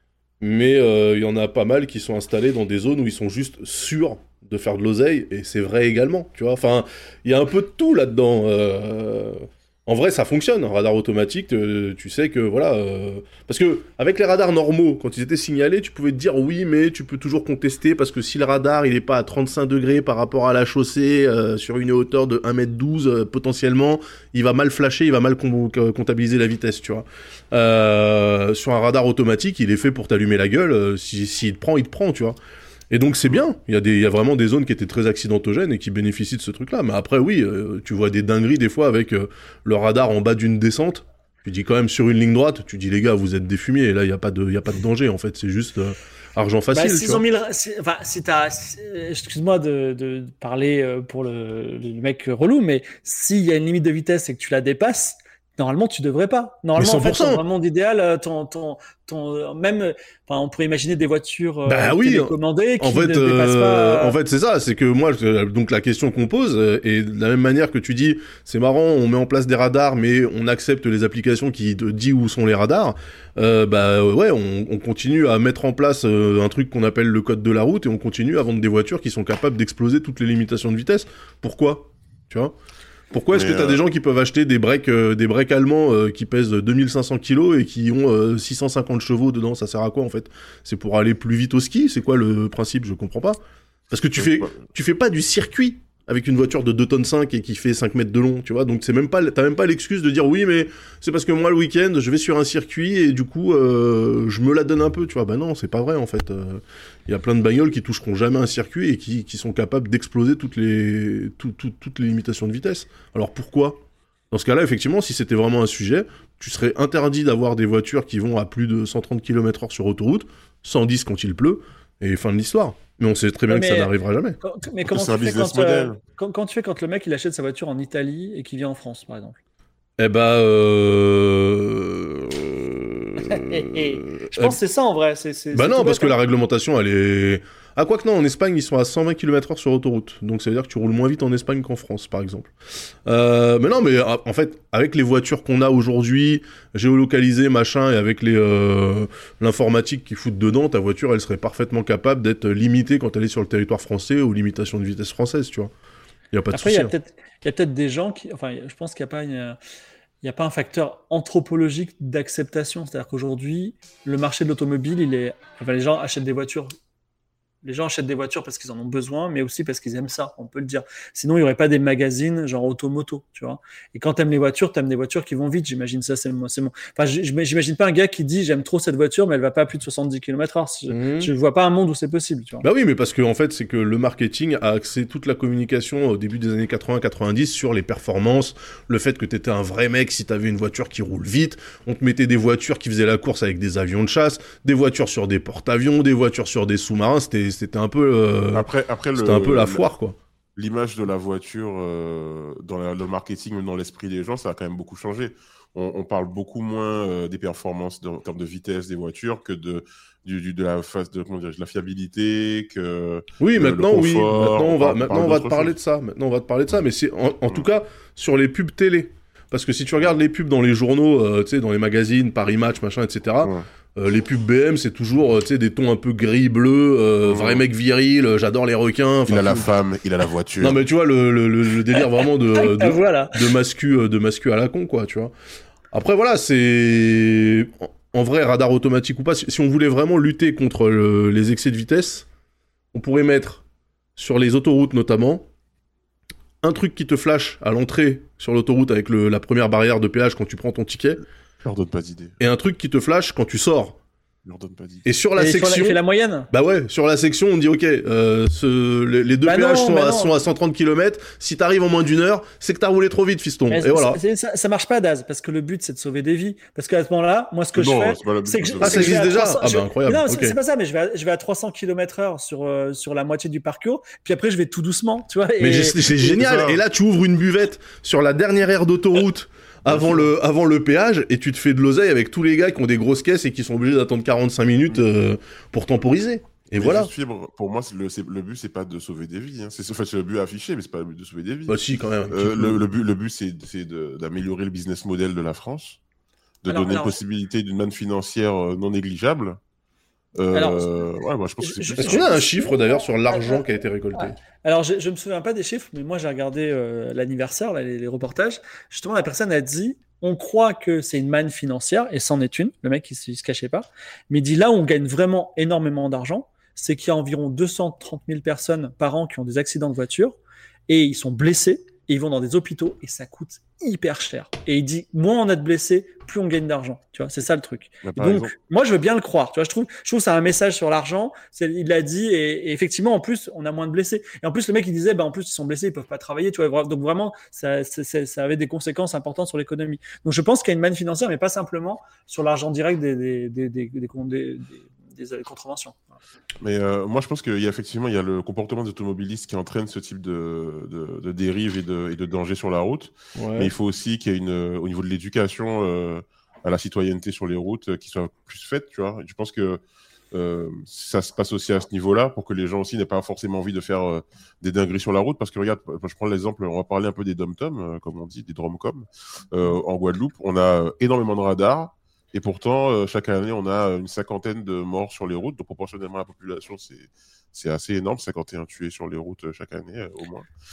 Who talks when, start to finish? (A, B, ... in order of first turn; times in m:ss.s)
0:00.4-0:32.4 A
0:32.9-0:47.2 A
0:46.7-1:04.2 B
0:56.8-0:57.4 A
1:01.7-1:22.5 A
1:23.1-1:33.4 A
1:23.3-1:23.8 C
1:33.9-2:04.4 A
1:34.2-1:34.6 C
2:03.5-2:09.4 B
2:04.9-2:06.0 C
2:10.0-2:14.6 A
2:13.2-2:16.2 B
2:15.5-2:35.7 A
2:36.3-2:36.9 A
2:36.5-2:39.6 B
2:40.2-2:46.7 B
2:47.6-3:02.7 B
3:00.9-3:01.3 A
3:02.6-3:20.2 A
3:18.5-3:19.9 C
3:20.6-3:35.8 C
3:33.4-3:49.7 A
3:47.2-3:47.6 C
3:49.3-3:50.8 C
3:50.6-3:55.3 A
3:52.0-3:53.5 B
3:55.9-4:02.3 A
4:02.9-4:03.6 A
4:04.2-4:05.5 A
4:06.6-4:11.2 A
4:11.6-4:12.4 C
4:12.4-4:14.0 A
4:14.4-4:15.0 C
4:15.0-4:24.2 A
4:15.4-4:16.5 B
4:19.4-4:20.3 B
4:23.7-4:36.1 B
4:27.8-4:29.3 C
4:28.8-4:30.6 A
4:35.6-4:47.1 A
4:36.1-4:36.8 C
4:39.9-4:40.3 C
4:46.8-4:56.0 C
4:51.7-4:52.8 A
4:56.6-4:59.6 C
4:56.7-4:57.2 B
5:00.4-5:02.5 C
5:00.5-5:01.0 B
5:01.6-5:03.6 B
5:02.0-5:04.4 A
5:04.2-5:20.4 B
5:20.9-5:46.1 B
5:28.0-5:28.5 C
5:46.6-6:20.5 C
5:53.4-5:53.7 A